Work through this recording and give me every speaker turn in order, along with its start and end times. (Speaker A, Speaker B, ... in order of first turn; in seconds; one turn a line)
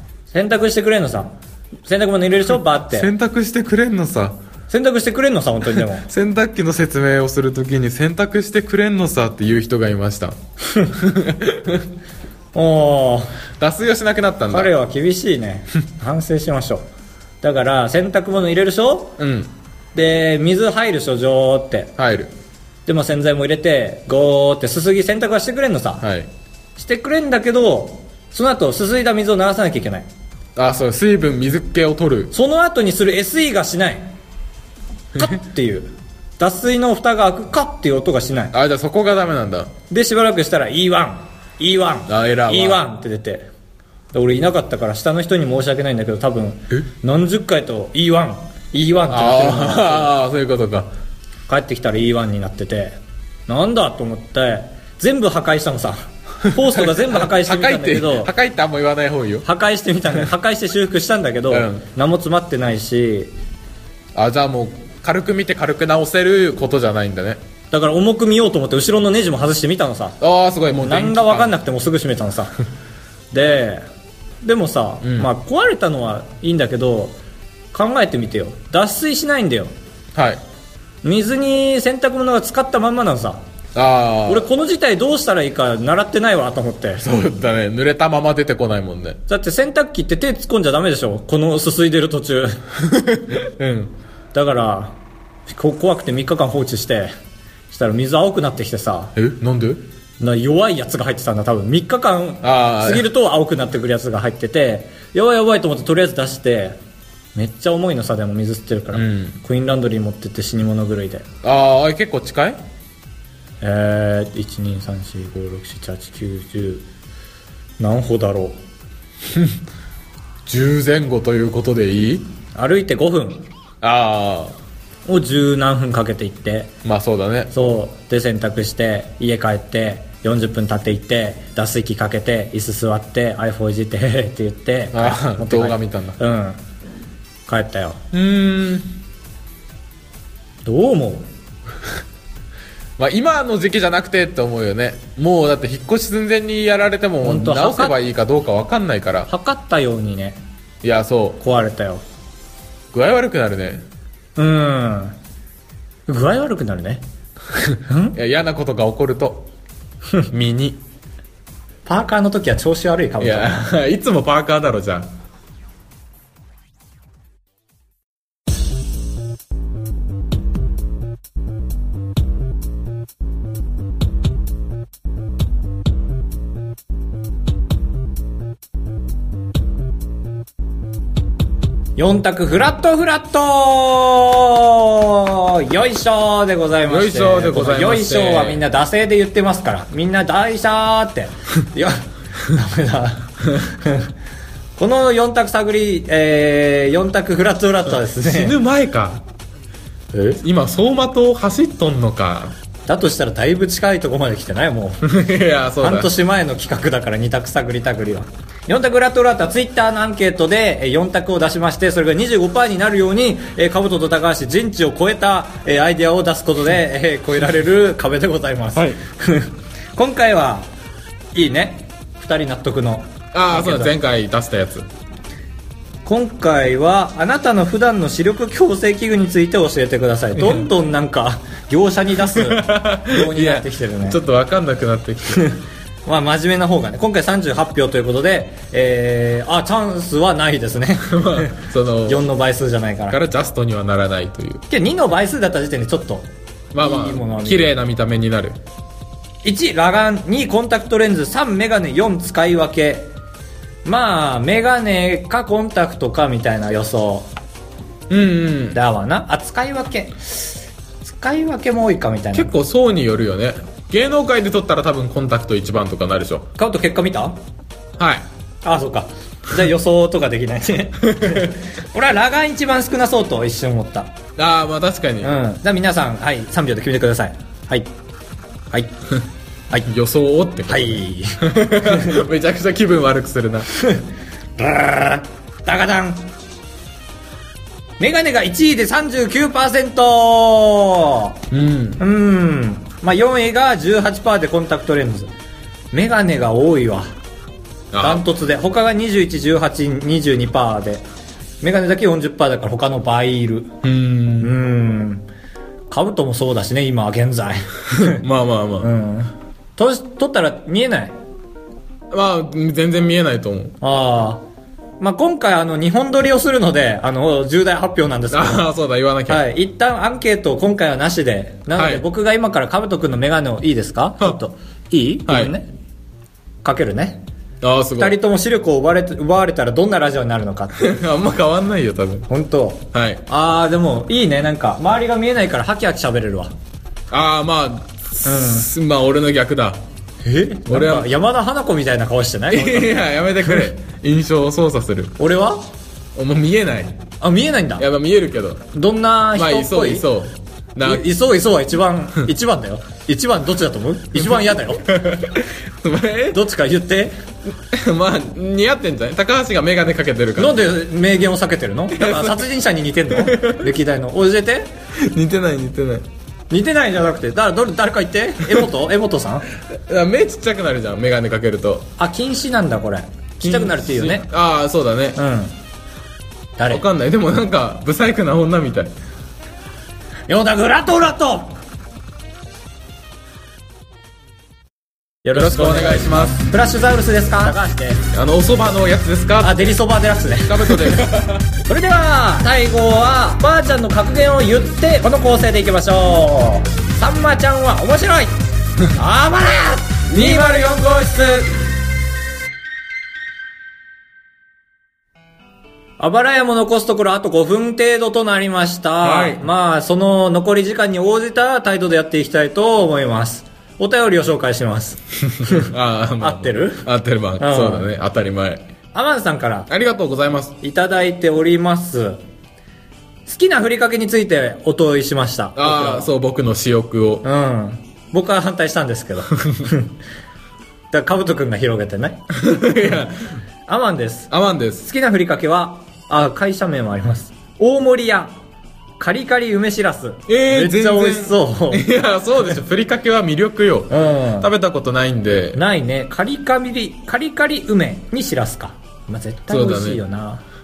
Speaker A: 0.3-1.3
Speaker A: 1.9-3.1
Speaker B: 2.9-4.4
Speaker A: 4.7-6.1
Speaker B: 6.0-11.8
Speaker A: 12.5-13.3
Speaker B: 13.6-14.7
Speaker A: 14.5-16.9
Speaker A: 17.4-19.2
Speaker B: 19.2-19.5
Speaker A: 19.9-21.9
Speaker B: 22.0-22.3
Speaker A: 22.9-26.0
Speaker B: 26.0-26.3
Speaker A: 26.8-30.1
Speaker B: 30.6-32.3
Speaker A: 32.3-34.1
Speaker A: 35.1-38.5
Speaker B: 38.5-39.7
Speaker A: 39.9-43.5
Speaker B: 42.1-42.8
Speaker A: 44.1-50.1
Speaker B: 49.1-50.9
Speaker A: 51.5-58.3
Speaker B: 56.5-59.5
Speaker A: 59.4-63.3
Speaker B: 61.5-61.9
Speaker B: 64.1-67.4
Speaker A: 67.7-70.2
Speaker B: 70.2-71.5
Speaker A: 70.8-72.5
Speaker A: 73.3-73.8
Speaker A: 74.4-77.2
Speaker B: 75.0-75.3
Speaker A: 77.7-79.7
Speaker B: 80.1-80.4
Speaker A: 81.0-83.4
Speaker B: 83.7-84.5
Speaker A: 84.2-87.0
Speaker B: 87.0-89.2
Speaker A: 89.3-92.6
Speaker B: 92.8-93.9
Speaker A: 94.3-95.0
Speaker A: 95.5-97.1
Speaker A: 97.7-99.1
Speaker B: 99.2-99.8
Speaker A: 100.2-106.8
Speaker B: 102.4-103.0
Speaker A: 107.3-111.2
Speaker B: 108.9-109.4
Speaker B: 111.4-112.6
Speaker A: 113.6-116.8
Speaker A: 117.8-118.6
Speaker B: 120.5-122.3
Speaker A: 122.5-123.5
Speaker B: 123.8-124.5
Speaker A: 125.0-126.7
Speaker B: 126.8-127.5
Speaker A: 127.5-136.6
Speaker B: 134.9-136.2
Speaker A: 137.5-138.0
Speaker B: 138.1-138.9
Speaker A: 140.6-141.3
Speaker B: 143.0-149.3
Speaker A: 147.2-147.9
Speaker A: 149.3-150.4
Speaker B: 150.8-151.4
Speaker A: 151.4-152.0
Speaker B: 152.9-153.8
Speaker A: 154.3-155.2
Speaker A: 156.1-157.0
Speaker B: 157.5-159.5
Speaker A: 157.9-158.2
Speaker B: 160.3-160.8
Speaker A: 161.8-163.6
Speaker B: 163.2-165.1
Speaker A: 181.9-194.1
Speaker B: 186.9-188.6
Speaker A: 194.8-198.6
Speaker B: 198.1-199.2
Speaker B: 200.1-202.5
Speaker A: 202.9-205.0
Speaker B: 205.0-206.1
Speaker A: 205.8-220.7
Speaker A: 221.3-223.9
Speaker B: 223.3-224.8
Speaker A: 226.0-234.2
Speaker B: 230.4-230.7
Speaker B: 232.2-235.5
Speaker A: 235.3-243.2
Speaker B: 241.1-242.2
Speaker B: 243.1-244.6
Speaker A: 244.7-247.7
Speaker B: 246.7-248.6
Speaker A: 249.4-253.1
Speaker A: 253.8-257.3
Speaker B: 258.1-258.8
Speaker A: 258.7-262.5
Speaker B: 262.3-266.5
Speaker A: 266.6-267.4
Speaker B: 268.0-268.2
Speaker A: 268.6-274.1
Speaker B: 271.0-271.5
Speaker B: 274.4-275.4
Speaker A: 275.2-277.9
Speaker A: 278.7-278.9
Speaker B: 279.9-283.7
Speaker A: 280.7-282.2
Speaker A: 283.7-286.3
Speaker A: 288.0-291.4
Speaker B: 291.5-292.0
Speaker A: 292.0-295.3
Speaker A: 295.9-297.1
Speaker B: 297.9-298.2
Speaker A: 298.0-301.0
Speaker A: 301.6-303.7
Speaker B: 303.8-304.5
Speaker A: 304.4-305.3
Speaker A: 305.9-308.2
Speaker B: 307.9-308.9
Speaker A: 308.8-311.2
Speaker B: 312.1-313.8
Speaker A: 313.8-314.4
Speaker A: 315.0-318.7
Speaker B: 318.3-319.4
Speaker A: 319.3-325.7
Speaker B: 321.8-322.0
Speaker B: 325.3-325.5
Speaker A: 326.6-327.2
Speaker B: 327.6-328.2
Speaker A: 328.0-330.8
Speaker B: 330.8-332.3
Speaker A: 332.3-336.5
Speaker B: 332.9-333.2
Speaker B: 337.1-339.8
Speaker A: 338.2-338.7
Speaker A: 340.2-343.6
Speaker B: 340.7-341.1
Speaker B: 342.5-345.1
Speaker A: 345.2-345.7
Speaker B: 346.1-347.0
Speaker A: 347.2-347.8
Speaker B: 347.8-348.6
Speaker A: 348.7-350.1
Speaker B: 349.3-351.1
Speaker A: 350.8-354.9
Speaker B: 354.8-356.4
Speaker A: 356.3-357.1
Speaker B: 357.6-360.6
Speaker A: 360.4-364.7
Speaker B: 361.9-362.4
Speaker B: 363.1-363.6
Speaker B: 365.0-366.1
Speaker A: 366.5-369.4
Speaker B: 369.7-371.9
Speaker A: 372.0-374.3
Speaker B: 373.4-375.2
Speaker A: 375.1-375.6
Speaker A: 376.6-376.8
Speaker B: 376.7-378.9
Speaker A: 380.3-381.6
Speaker A: 385.2-388.0
Speaker B: 385.3-386.4
Speaker B: 388.1-389.8
Speaker A: 389.4-391.0
Speaker B: 390.4-391.5
Speaker A: 391.7-400.7
Speaker B: 400.1-401.7
Speaker A: 406.0-416.8
Speaker B: 409.0-409.4
Speaker B: 415.4-418.6
Speaker A: 417.4-417.9
Speaker A: 418.9-419.7
Speaker B: 419.7-420.6
Speaker A: 420.6-422.2
Speaker A: 423.2-426.1
Speaker B: 425.6-427.2
Speaker A: 427.2-429.9
Speaker A: 430.9-432.2
Speaker B: 432.3-433.4
Speaker A: 433.7-434.3
Speaker B: 434.3-434.9
Speaker A: 434.8-438.3
Speaker A: 439.0-441.9
Speaker B: 440.3-445.6
Speaker A: 443.9-444.5
Speaker A: 445.5-450.4
Speaker B: 449.5-450.0